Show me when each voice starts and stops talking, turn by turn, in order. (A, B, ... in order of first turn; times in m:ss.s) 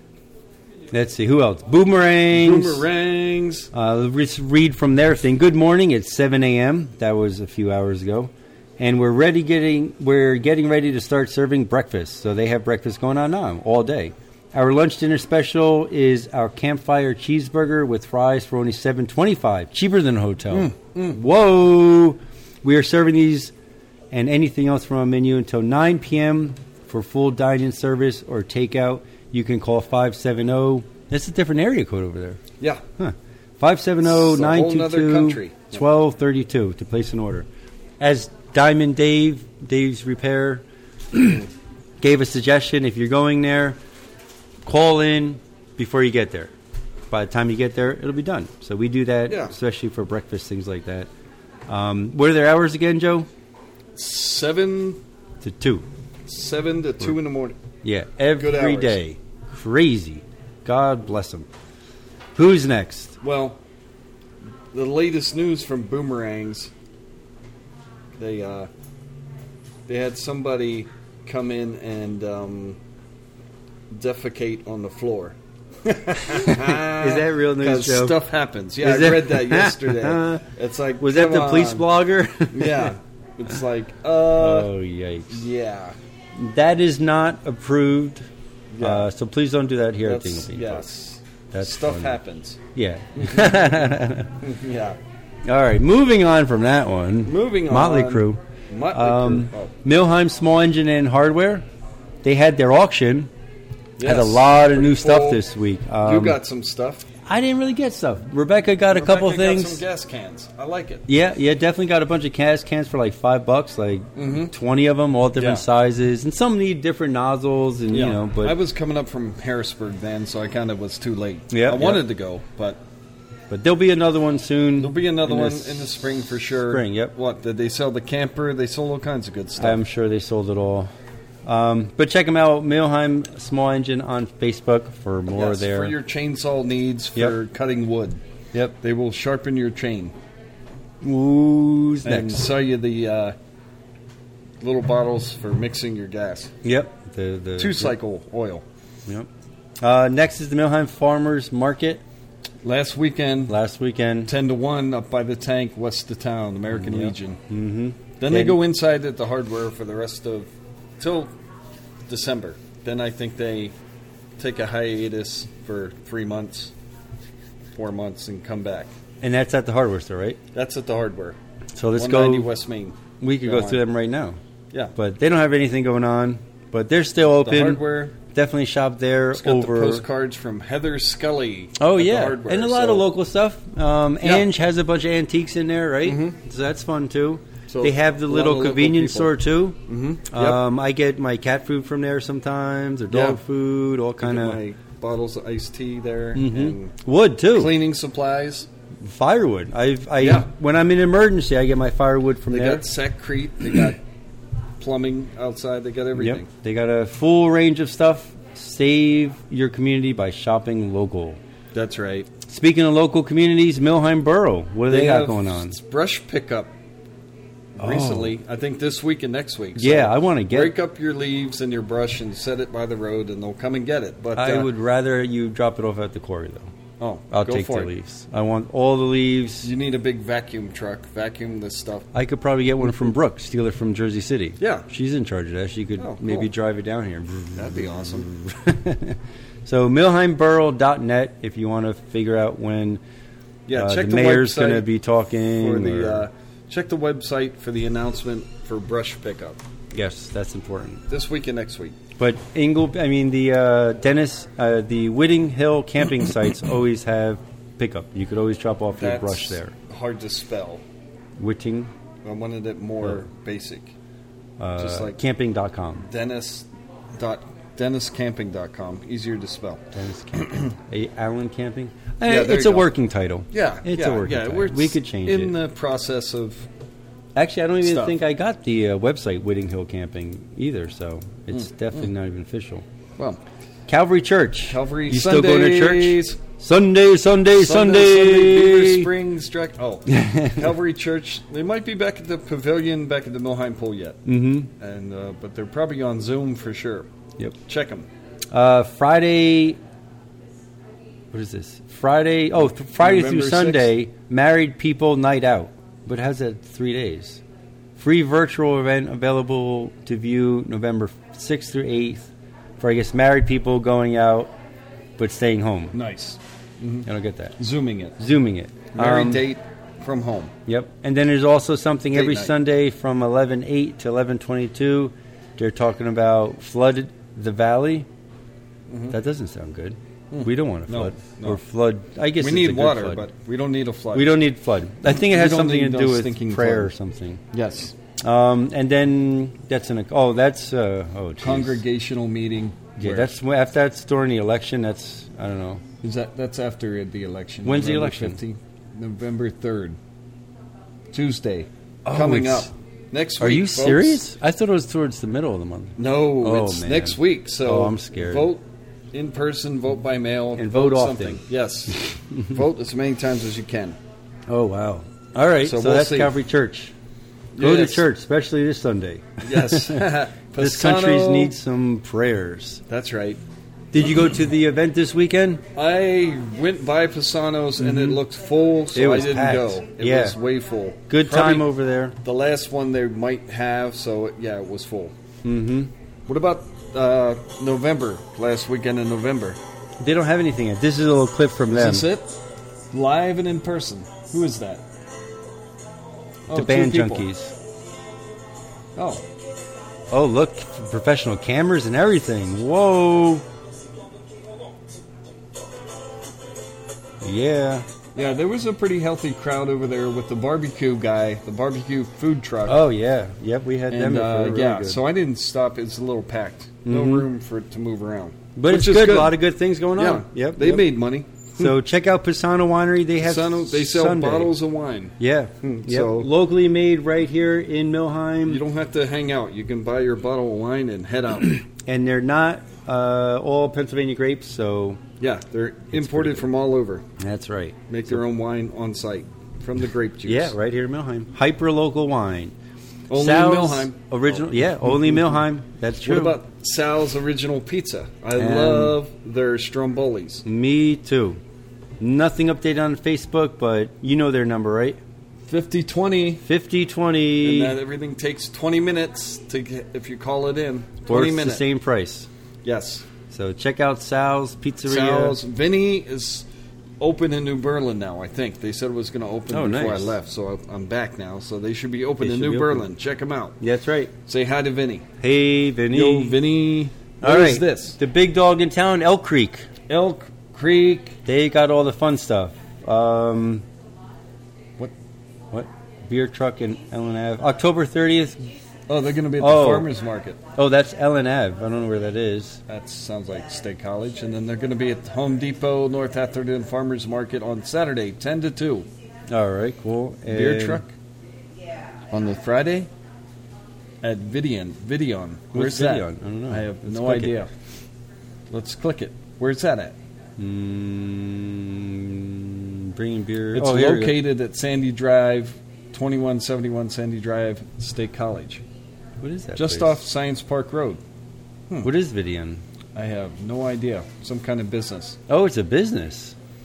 0:00.9-0:02.8 A
0:02.3-0:03.7 B
0:03.7-0:23.5 A
0:20.5-0:21.2 B
0:24.1-0:32.4 A
0:33.0-0:37.5 A
0:34.0-0:35.8 B
0:38.0-0:41.4 A
0:42.0-0:43.8 A
0:44.6-0:46.5 A
0:47.1-0:51.1 A
0:49.3-0:49.5 B
0:51.7-0:53.3 A
0:54.0-0:55.0 B
0:55.4-0:55.8 A
0:56.2-0:57.6 B
0:57.8-1:01.5 A
0:58.3-0:59.0 B
1:02.3-1:03.2 A
1:03.2-1:03.6 B
1:04.7-1:06.7 B
1:08.2-1:08.7 B
1:09.9-1:12.8 B
1:13.9-1:21.8 B
1:16.3-1:18.2 A
1:18.8-1:20.4 A
1:21.0-1:22.9 A
1:22.5-1:24.7 B
1:24.3-1:25.4 A
1:25.3-1:25.9 B
1:26.3-1:28.3 A
1:28.7-1:29.1 B
1:28.8-1:30.8 A
1:30.0-1:32.6 B
1:31.5-1:32.2 A
1:32.7-1:34.4 A
1:33.2-1:33.7 B
1:34.4-1:35.0 B
1:35.4-1:38.4 A
1:37.2-1:39.7 B
1:38.9-1:41.7 A
1:42.2-1:43.3 A
1:44.0-1:45.4 B
1:44.0-1:46.4 A
1:46.0-1:47.0 B
1:47.2-1:49.8 A
1:48.8-1:51.0 B
1:51.1-1:58.6 A
1:54.2-1:54.5 B
1:55.4-1:55.6 B
1:57.9-2:02.8 B
2:01.5-2:02.1 A
2:03.5-2:06.0 A
2:04.8-2:09.8 B
2:06.6-2:07.1 A
2:09.6-2:10.9 A
2:11.4-2:16.0 A
2:15.3-2:20.1 B
2:21.0-2:22.5 A
2:22.0-2:23.3 B
2:24.6-2:26.5 B
2:26.6-2:28.0 A
2:27.6-2:28.6 B
2:29.8-2:32.0 A
2:32.6-2:33.6 B
2:33.5-2:34.3 A
2:34.2-2:37.4 B
2:36.7-2:38.6 A
2:38.2-2:41.3 B
2:42.1-2:43.7 B
2:44.4-2:46.7 B
2:47.7-2:48.9 B
2:49.2-2:50.4 A
2:50.5-2:51.4 B
2:51.8-2:52.5 A
2:52.0-2:53.8 B
2:53.2-2:54.4 A
2:55.0-3:00.0 A
2:57.4-2:58.1 B
2:59.3-3:03.0 B
3:01.8-3:14.6 A
3:04.2-3:04.5 B
3:06.0-3:06.4 B
3:07.7-3:09.3 B
3:09.9-3:10.6 B
3:13.1-3:13.4 B
3:14.2-3:16.9 B
3:16.3-3:17.8 A
3:17.5-3:18.7 B
3:19.0-3:22.9 A
3:20.2-3:20.5 B
3:22.5-3:24.0 B
3:24.8-3:26.5 B
3:26.1-3:31.4 A
3:31.7-3:32.3 B
3:32.5-3:35.7 A
3:34.9-3:36.7 B
3:37.8-3:44.7 B
3:37.8-3:38.4 A
3:39.8-3:40.7 A
3:44.3-3:46.7 A
3:47.0-3:47.9 B
3:47.3-3:49.7 A
3:49.6-3:52.1 B
3:52.1-4:03.0 A
3:52.8-3:53.1 B
3:54.6-3:54.9 B
3:56.0-3:56.5 B
3:57.5-3:58.3 B
4:03.7-4:04.9 B
4:03.7-4:06.3 A
4:05.5-4:09.6 B
4:09.9-4:11.0 A
4:11.1-4:12.0 B
4:12.2-4:19.7 A
4:18.9-4:20.8 B
4:21.4-4:21.9 A
4:22.2-4:23.9 B
4:24.6-4:26.0 A
4:24.8-4:25.2 B
4:26.0-4:29.9 B
4:29.9-4:35.6 A
4:30.4-4:30.7 B
4:32.2-4:32.9 B
4:33.5-4:36.7 B
4:37.3-4:42.8 A
4:37.8-4:38.2 B
4:41.5-4:42.1 B
4:43.9-4:49.1 A
4:44.6-4:46.4 B
4:47.6-4:54.2 B
4:50.1-4:50.7 A
4:54.2-4:54.7 A
4:54.8-4:57.1 B
4:57.6-4:58.1 B
4:58.5-4:59.8 A
5:01.3-5:07.4 A
5:03.0-5:03.9 B
5:08.0-5:14.5 A
5:15.2-5:15.9 A
5:15.9-5:18.2 B
5:17.0-5:17.6 A
5:18.2-5:19.4 A
5:18.9-5:20.5 B
5:20.7-5:28.1 A
5:22.1-5:22.5 B
5:28.9-5:29.2 B
5:29.1-5:33.2 A
5:30.3-5:31.6 B
5:32.4-5:34.4 B
5:34.1-5:37.4 A
5:35.1-5:36.9 B
5:37.5-5:37.9 B
5:38.2-5:41.8 A
5:41.4-5:43.3 B
5:43.0-5:45.8 A
5:46.0-5:50.0 B
5:47.6-5:48.4 A
5:51.1-5:54.2 B
5:52.0-5:52.7 A
5:53.4-5:58.5 A
5:56.0-6:04.0 B
6:00.6-6:01.4 A
6:02.0-6:02.6 A
6:04.5-6:06.9 A
6:05.6-6:06.3 B
6:07.5-6:08.0 B
6:07.6-6:12.8 A
6:09.4-6:11.5 B
6:12.9-6:13.4 B
6:13.9-6:15.6 A
6:15.7-6:21.7 B
6:17.8-6:18.2 A
6:18.9-6:20.4 A
6:21.1-6:22.2 A
6:22.2-6:25.1 B
6:25.4-6:25.9 A
6:26.3-6:29.6 B
6:30.0-6:32.1 A
6:31.7-6:32.4 B
6:32.9-6:34.8 B
6:36.5-6:37.2 B
6:36.5-6:37.5 A
6:39.0-6:39.2 B
6:40.1-6:43.4 A
6:47.2-6:47.8 A
6:48.1-6:52.8 B
6:52.7-6:55.0 A
6:53.9-6:59.4 B
6:56.8-6:57.3 A
6:58.6-7:00.9 A
6:59.9-7:01.7 B
7:01.6-7:04.5 A
7:03.2-7:06.3 B
7:05.2-7:08.6 A
7:08.5-7:11.6 B
7:11.7-7:15.0 A
7:15.2-7:17.0 B
7:15.9-7:16.5 A
7:17.2-7:18.2 A
7:17.9-7:20.5 B
7:20.2-7:22.5 A
7:23.1-7:25.4 B
7:23.1-7:26.4 A
7:26.0-7:30.4 B
7:28.3-7:29.0 A
7:30.4-7:31.4 A
7:32.0-7:35.0 A
7:35.5-7:36.4 B
7:36.4-7:37.8 A
7:37.4-7:41.6 B
7:41.1-7:42.3 A
7:42.6-7:43.0 B
7:43.3-7:45.4 A
7:44.8-7:46.4 B
7:47.0-7:53.6 B
7:49.5-7:50.2 A
7:52.2-7:52.9 A
7:53.6-7:54.1 A
7:54.2-7:55.0 B
7:55.2-7:56.4 A
7:55.9-7:58.0 B
7:57.2-7:59.7 A
7:59.9-8:01.2 B
8:01.2-8:03.6 A
8:05.5-8:08.5 A
8:08.9-8:10.4 B
8:09.4-8:09.9 A
8:10.5-8:12.6 A
8:12.7-8:18.9 B
8:19.3-8:20.8 A
8:20.3-8:20.9 B
8:22.1-8:22.9 B
8:24.0-8:27.5 B
8:25.5-8:27.3 A
8:28.5-8:30.0 B
8:30.4-8:34.2 A
8:33.5-8:38.6 B
8:39.2-8:40.0 A
8:39.6-8:41.0 B
8:41.8-8:42.6 A
8:42.9-8:45.2 B
8:45.3-8:46.3 A